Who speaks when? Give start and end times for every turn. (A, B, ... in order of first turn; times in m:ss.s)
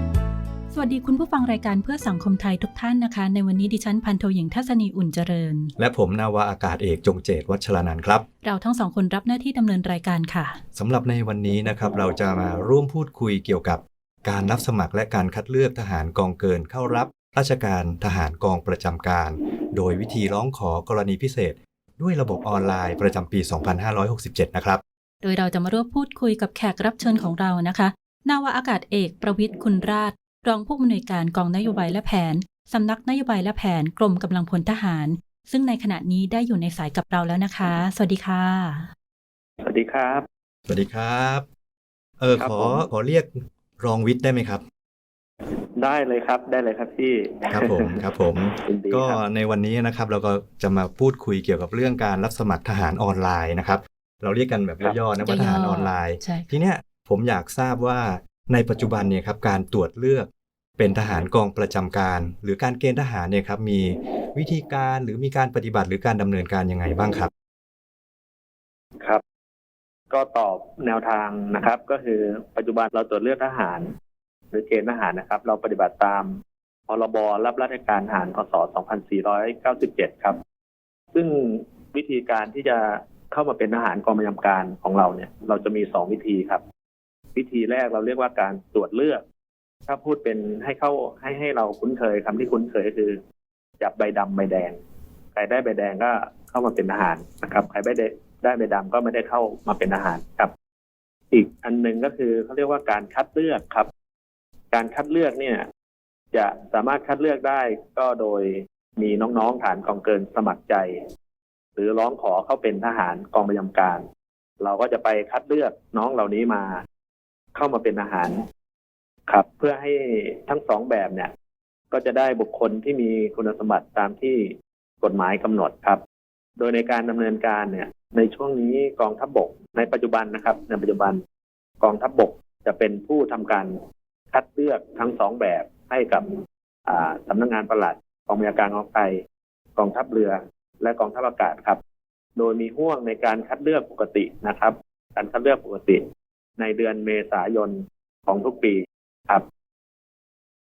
0:00.7-0:05.7 A
0:05.8-0:08.2 B
0:08.4-0:10.6 A
0:10.8-0:24.8 B
0:25.2-0:38.8 A
0:39.6-0:40.3 C
0:40.7-0:41.5 B
0:42.2-0:44.6 B
0:42.4-0:42.8 C
0:45.8-0:47.9 C
0:47.5-1:07.3 B
0:48.7-0:49.2 C
0:55.2-0:56.5 A
1:10.1-1:13.9 C
1:14.5-1:16.3 C
1:16.9-1:20.4 C
1:21.1-1:26.6 C
1:27.4-1:29.2 C
1:29.9-1:33.2 C
1:33.8-1:34.8 C
1:35.3-1:40.5 C
1:41.3-1:43.9 C
1:44.7-1:45.7 C
1:46.3-1:51.0 C
1:51.8-1:54.0 C
1:54.6-1:56.8 C
1:57.6-1:58.4 C
1:59.3-2:01.3 C
2:01.9-2:06.0 C
2:06.6-2:11.2 C
2:11.8-2:13.8 C
2:14.3-2:16.3 C
2:16.9-2:19.2 C
2:19.8-2:21.8 C
2:22.4-2:26.0 C
2:26.6-2:29.4 C